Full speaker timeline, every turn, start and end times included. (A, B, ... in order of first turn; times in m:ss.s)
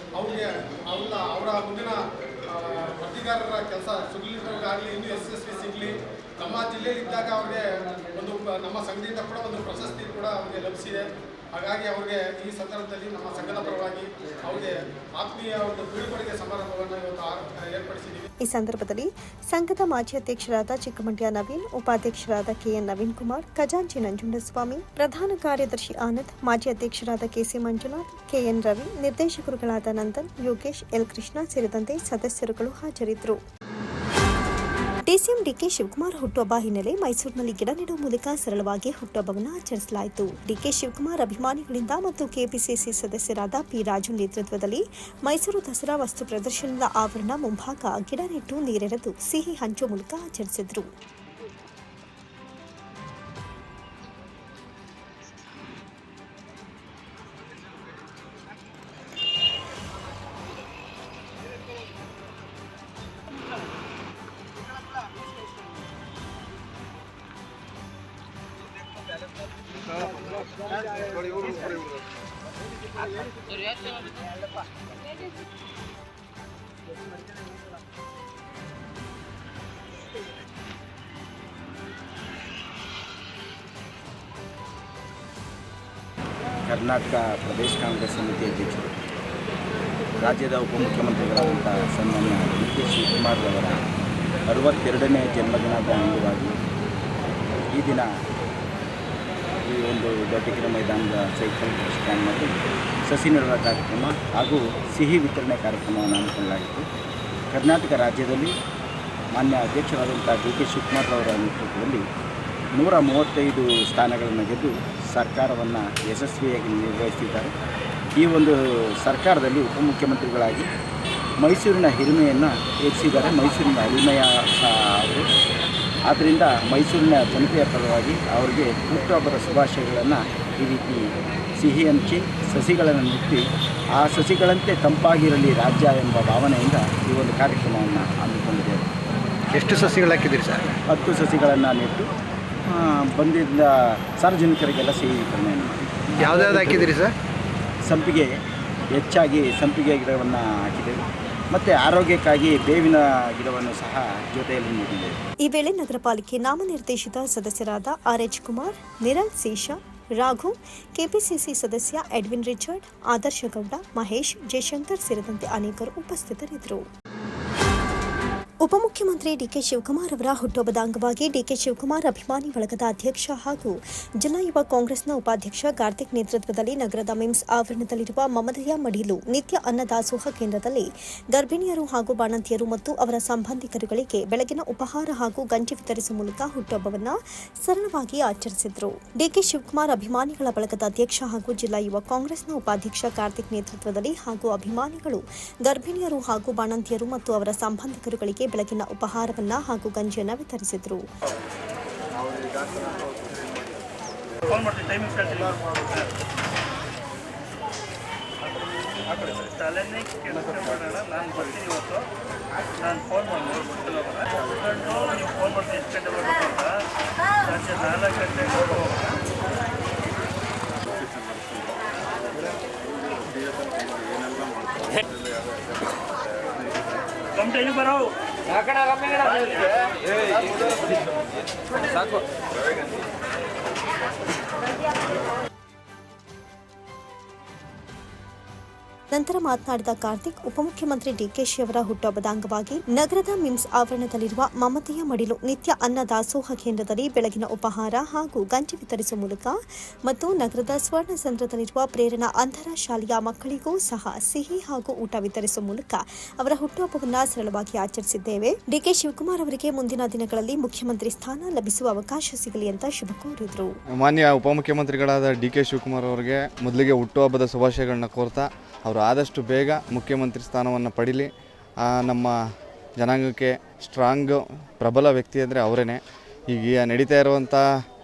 0:00.2-0:02.0 A
0:02.5-0:07.6 A
0:08.1-0:11.0 A
0:11.5-0:18.3 A
0:18.4-0:33.4 B
0:35.1-0:50.9 B
1:26.7-1:28.9 C
1:30.2-1:33.8 C
1:34.5-1:36.5 C
1:37.7-1:38.1 C
1:39.6-1:46.8 C
1:47.5-1:48.5 C
1:49.3-1:52.0 C
1:52.7-1:57.5 C
1:58.1-2:00.7 C
2:01.4-2:05.2 C
2:06.1-2:11.0 C
2:11.6-2:13.4 C
2:13.9-2:18.9 C
2:19.5-2:20.6 D
2:20.9-2:22.1 C
2:22.7-2:26.0 C
2:26.2-2:27.1 D
2:27.8-2:28.3 C
2:28.9-2:35.2 C
2:35.4-2:46.8 B
2:48.6-3:21.0 B
3:24.5-3:26.1 E
3:29.1-3:32.0 E
3:32.8-3:36.7 E
3:37.4-3:39.2 E
3:47.3-3:48.1 E
3:59.1-4:23.8 B
4:24.0-4:31.3 F
4:31.8-4:32.4 F
4:33.0-4:36.0 F
4:36.5-4:37.6 F